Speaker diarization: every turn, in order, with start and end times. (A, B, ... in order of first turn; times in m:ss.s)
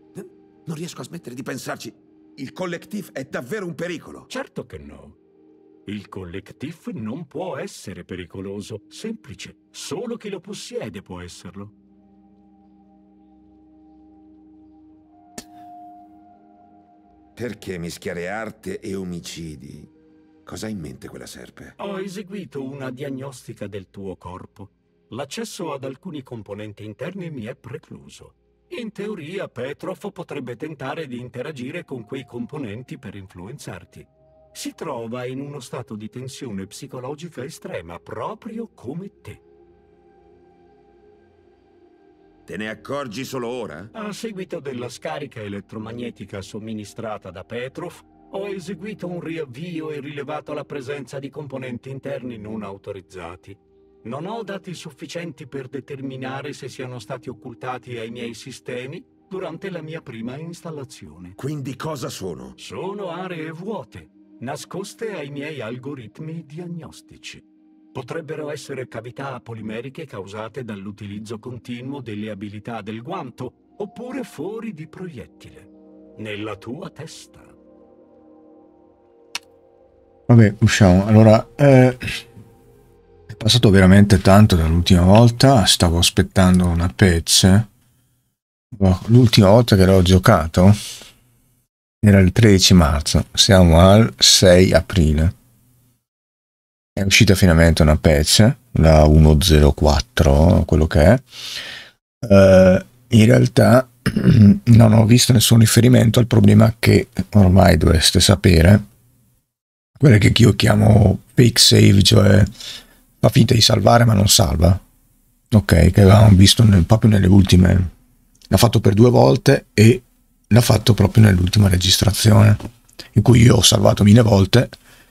0:00.1-0:04.3 A
0:04.3-0:05.2 B
0:05.8-0:11.7 B
0:17.4-0:19.9 A
0:20.4-0:21.8 A
0:21.8-0:39.4 B
0:42.5-0:43.9 A
0:43.9-1:01.4 B
1:01.4-1:02.6 A
1:02.6-1:07.4 B
1:07.9-1:17.5 B
1:20.3-1:22.0 C
1:23.3-1:27.7 C
1:28.7-1:30.8 C
1:32.0-1:35.3 C
1:37.0-1:41.2 C
1:42.2-1:48.8 C
1:50.0-1:52.5 C
1:53.2-1:54.8 C
1:55.5-1:57.9 C
1:58.5-2:02.6 C
2:03.1-2:04.7 C